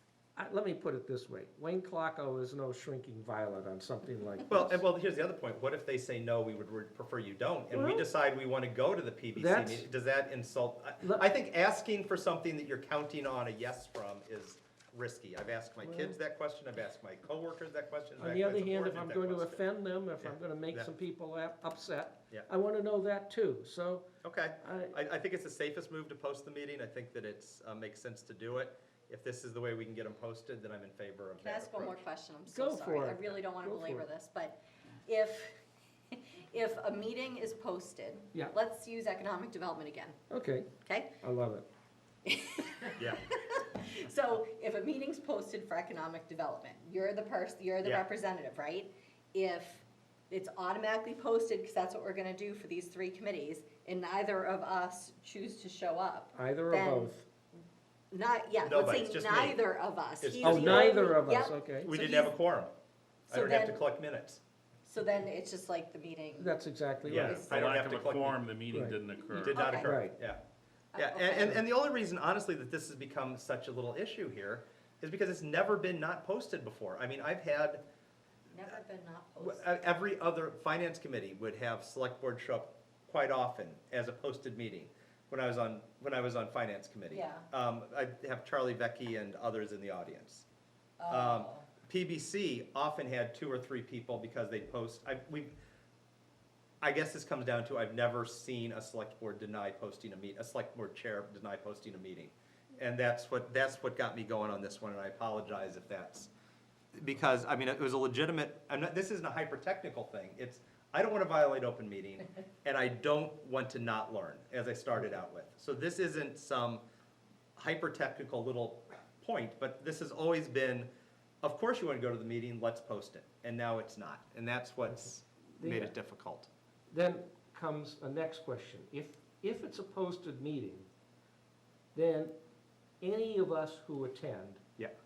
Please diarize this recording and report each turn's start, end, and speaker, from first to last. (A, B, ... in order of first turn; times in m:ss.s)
0:00.4-0:04.8 A
0:04.5-0:19.6 B
0:07.7-0:08.0 A
0:09.4-0:09.9 A
0:15.8-0:16.1 A
0:18.2-0:24.0 A
0:20.2-0:20.9 B
0:24.2-0:32.0 B
0:24.6-0:24.9 A
0:31.4-0:35.5 C
0:32.5-0:34.1 A
0:36.1-0:40.2 C
0:40.3-0:40.7 A
0:40.8-0:41.1 C
0:41.2-0:41.6 A
0:42.2-0:57.1 C
0:43.0-0:43.3 B
0:56.3-0:57.2 A
0:58.1-1:02.3 C
0:58.6-0:59.6 B
1:00.2-1:00.9 B
1:00.4-1:01.9 A
1:01.8-1:02.7 B
1:03.3-1:03.8 C
1:03.3-1:04.4 B
1:04.9-1:06.5 C
1:06.4-1:07.4 A
1:07.0-1:08.4 B
1:07.1-1:07.5 C
1:07.1-1:09.8 D
1:09.4-1:10.4 B
1:09.5-1:09.9 C
1:09.8-1:10.2 A
1:10.9-1:11.6 C
1:11.0-1:17.8 B
1:18.5-1:19.6 C
1:19.4-1:30.4 B
1:27.1-1:27.4 C
1:31.0-1:31.7 C
1:31.1-1:35.5 B
1:36.8-1:46.3 B
1:47.0-1:56.8 B
1:57.6-2:00.9 B
2:01.4-2:06.5 B
2:05.6-2:05.9 A
2:06.9-2:10.9 A
2:11.9-2:12.3 A
2:13.0-2:14.6 A